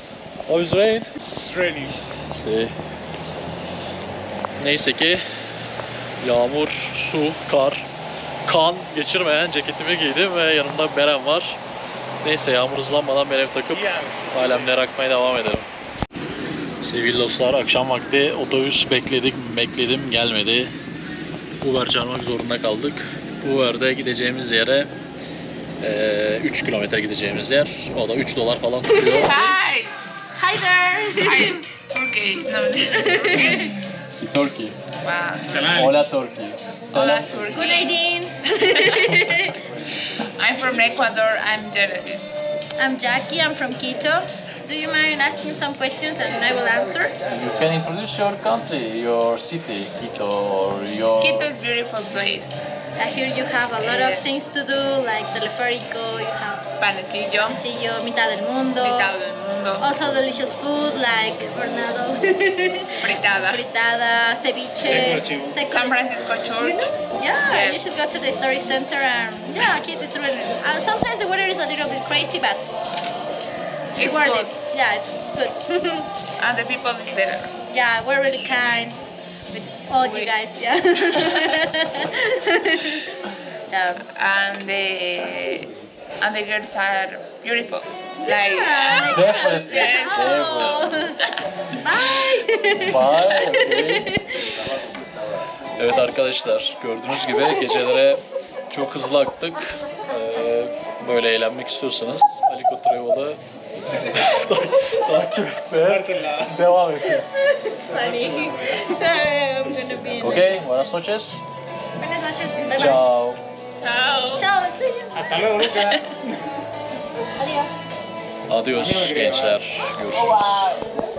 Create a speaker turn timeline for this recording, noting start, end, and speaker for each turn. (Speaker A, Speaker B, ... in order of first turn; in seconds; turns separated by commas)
Speaker A: 0.5-1.1, Speaker B: 1.4-1.9, Speaker A: 2.2-2.7, Speaker A: 4.6-5.2, Speaker A: 6.2-7.8, Speaker A: 8.4-11.6, Speaker A: 12.2-15.7, Speaker B: 13.7-14.7, Speaker A: 16.8-20.7, Speaker A: 21.6-24.9, Speaker A: 25.8-29.5, Speaker C: 28.9-29.5, Speaker D: 29.0-29.9, Speaker C: 30.4-31.6, Speaker D: 31.2-33.8, Speaker C: 33.0-33.8, Speaker A: 34.1-34.8, Speaker D: 35.0-35.7, Speaker B: 35.5-36.0, Speaker A: 35.7-37.4, Speaker D: 36.9-38.0, Speaker C: 37.5-39.6, Speaker D: 40.2-42.2, Speaker C: 42.8-47.2, Speaker A: 47.2-51.5, Speaker D: 51.2-52.5, Speaker C: 53.0-56.7, Speaker D: 53.8-54.2, Speaker D: 56.8-57.6, Speaker C: 57.4-59.3, Speaker D: 58.8-59.9, Speaker C: 59.8-66.0, Speaker D: 63.0-63.6, Speaker B: 64.8-65.6, Speaker D: 64.8-66.9, Speaker C: 66.6-72.7, Speaker D: 67.5-67.8, Speaker D: 74.0-74.6, Speaker C: 74.0-76.1, Speaker D: 76.4-77.5, Speaker C: 77.7-83.0, Speaker D: 80.0-80.3, Speaker C: 83.7-84.1, Speaker D: 84.1-91.0, Speaker C: 88.2-91.2, Speaker A: 89.1-91.2, Speaker C: 91.7-94.1, Speaker A: 92.7-94.2, Speaker A: 95.8-103.4, Speaker A: 104.0-107.3, Speaker B: 105.8-106.5, Speaker C: 107.3-110.6, Speaker B: 108.0-108.6, Speaker A: 110.2-111.4, Speaker C: 112.0-113.0, Speaker A: 112.7-113.4, Speaker D: 113.8-114.5, Speaker C: 114.4-115.3, Speaker B: 115.1-116.0, Speaker D: 115.8-116.0, Speaker C: 117.3-117.9, Speaker A: 118.5-120.8, Speaker B: 118.8-119.5